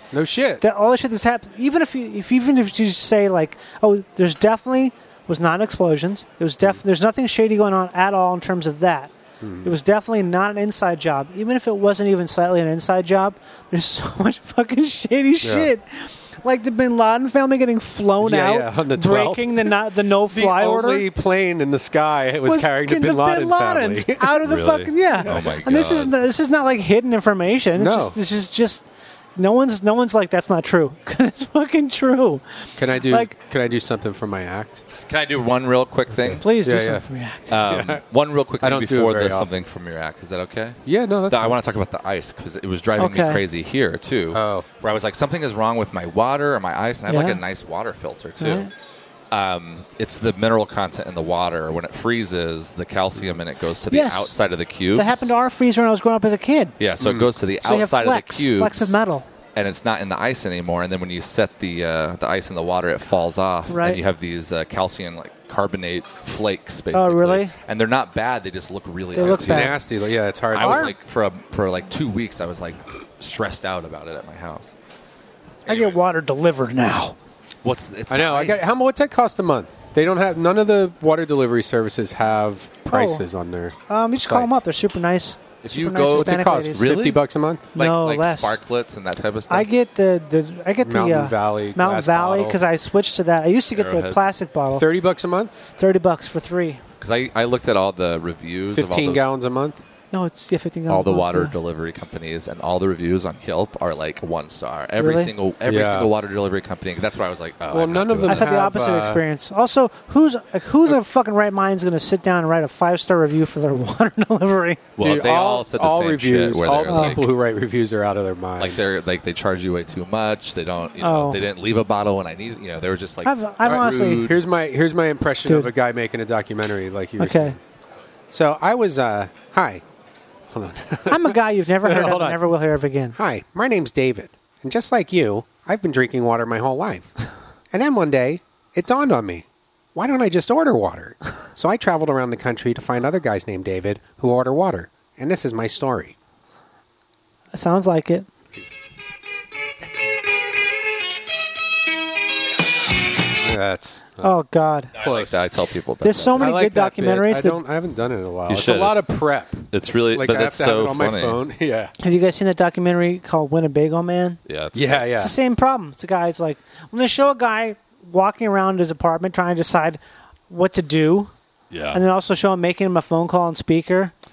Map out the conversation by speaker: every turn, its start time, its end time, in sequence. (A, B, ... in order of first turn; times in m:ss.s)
0:00.1-0:00.6 A
0:00.6-0:09.1 B
0:09.4-0:09.7 A
0:09.6-0:21.1 B
0:15.4-0:15.7 A
0:18.2-0:19.8 A
0:20.3-0:24.5 A
0:22.4-0:32.4 B
0:24.4-0:26.1 C
0:25.2-0:25.5 A
0:27.8-0:28.2 A
0:32.8-0:34.9 A
0:33.0-0:33.3 B
0:35.0-0:36.4 C
0:36.1-0:37.0 A
0:36.4-0:37.6 B
0:37.5-0:48.7 C
0:37.6-0:38.0 A
0:38.6-0:39.5 A
0:40.9-0:41.6 A
0:43.0-0:43.4 B
0:44.3-0:44.7 A
0:47.1-0:47.4 B
0:48.4-0:48.7 B
0:49.3-0:55.3 C
0:53.9-0:54.4 B
0:54.9-0:56.8 B
0:56.8-0:59.0 C
0:57.0-0:57.3 A
0:57.6-0:59.3 B
0:59.6-1:09.8 C
1:03.7-1:04.0 B
1:06.9-1:07.5 B
1:09.2-1:09.8 B
1:09.2-1:10.9 A
1:10.5-1:14.7 C
1:10.6-1:10.9 B
1:15.7-1:16.0 C
1:15.7-1:17.2 B
1:17.6-1:18.7 C
1:18.1-1:24.6 A
1:22.9-1:23.2 B
1:23.9-1:26.9 B
1:25.6-1:27.2 C
1:26.1-1:27.7 A
1:27.7-1:29.7 C
1:27.8-1:28.6 B
1:29.5-1:34.8 B
1:30.8-1:32.6 A
1:33.7-1:34.2 C
1:34.7-1:35.6 A
1:35.8-1:36.8 B
1:37.0-1:39.3 C
1:38.7-1:39.8 A
1:40.1-1:41.6 B
1:40.9-1:48.7 C
1:45.0-1:45.3 B
1:45.6-1:46.1 A
1:47.7-1:49.2 A
1:48.2-1:54.8 B
1:55.0-1:57.4 C
1:55.0-1:58.8 A
1:56.9-1:57.2 B
1:58.6-2:04.4 C
2:01.0-2:01.4 B
2:03.2-2:04.3 B
2:03.6-2:07.6 A
2:07.2-2:07.6 B
2:08.3-2:09.8 A
2:10.5-2:12.4 A
2:11.1-2:13.2 B
2:13.2-2:17.2 A
2:17.7-2:26.2 A
2:27.5-2:28.3 B
2:33.4-2:34.3 A
2:34.2-2:35.0 B
2:35.0-2:35.4 A
2:35.0-2:36.5 C
2:36.0-2:37.6 B
2:36.4-2:41.9 A
2:38.5-2:39.1 C
2:39.7-2:41.4 C
2:42.0-2:44.4 B
2:44.5-2:45.1 C
2:44.8-2:45.4 A
2:45.1-2:51.3 B
2:51.7-2:52.0 C
2:51.9-2:54.1 B